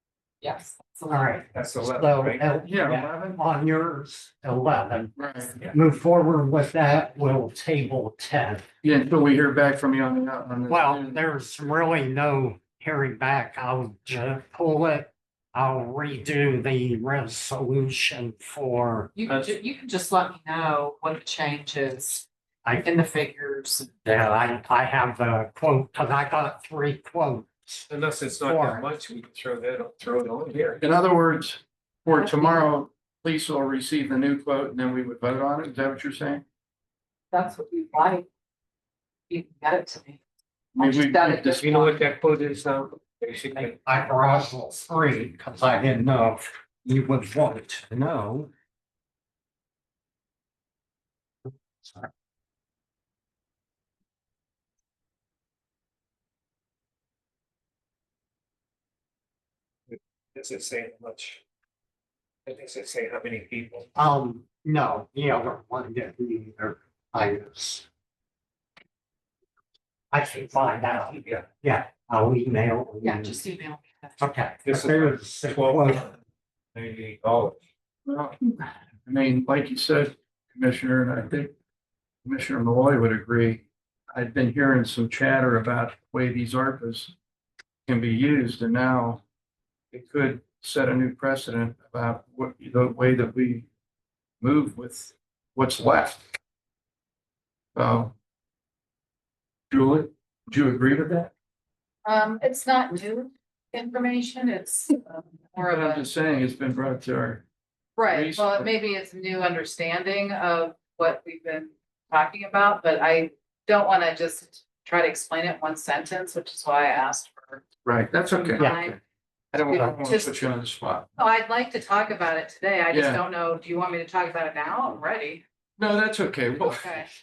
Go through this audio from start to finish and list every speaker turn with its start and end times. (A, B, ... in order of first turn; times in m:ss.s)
0:00.4-0:01.3 A
0:01.1-0:08.6 B
0:01.5-0:02.4 C
0:02.6-0:03.4 D
0:05.2-0:05.5 D
0:08.8-0:11.2 D
0:10.7-0:19.1 B
0:19.2-0:22.2 A
0:22.6-0:22.9 B
0:22.8-0:23.9 A
0:24.0-0:27.9 B
0:27.9-0:31.0 C
0:28.4-0:28.9 B
0:30.8-0:36.4 D
0:32.1-0:32.6 A
0:37.3-0:38.3 A
0:39.3-0:40.2 A
0:40.8-0:41.6 D
0:40.8-0:42.0 A
0:41.6-0:43.8 C
0:43.6-0:48.5 B
0:51.8-0:52.1 B
0:59.9-1:01.4 C
1:02.5-1:03.9 C
1:04.0-1:07.9 B
1:10.1-1:13.4 B
1:11.1-1:11.4 C
1:13.0-1:14.2 A
1:14.2-1:16.1 B
1:14.6-1:16.2 C
1:16.8-1:17.6 C
1:18.1-1:21.5 D
1:22.2-1:27.1 D
1:27.9-1:29.2 D
1:29.9-1:33.7 D
1:34.4-1:36.2 D
1:37.8-1:38.1 D
1:39.7-1:41.3 D
1:42.0-1:46.0 A
1:45.6-1:47.4 D
1:48.0-1:57.6 A
1:48.1-1:48.7 D
1:57.8-1:59.0 D
1:58.3-1:59.0 A
1:58.6-1:58.8 B
1:59.5-2:01.1 D
1:59.6-2:00.3 A
2:01.2-2:05.4 A
2:02.9-2:03.2 D
2:05.8-2:06.9 D
2:06.8-2:07.1 A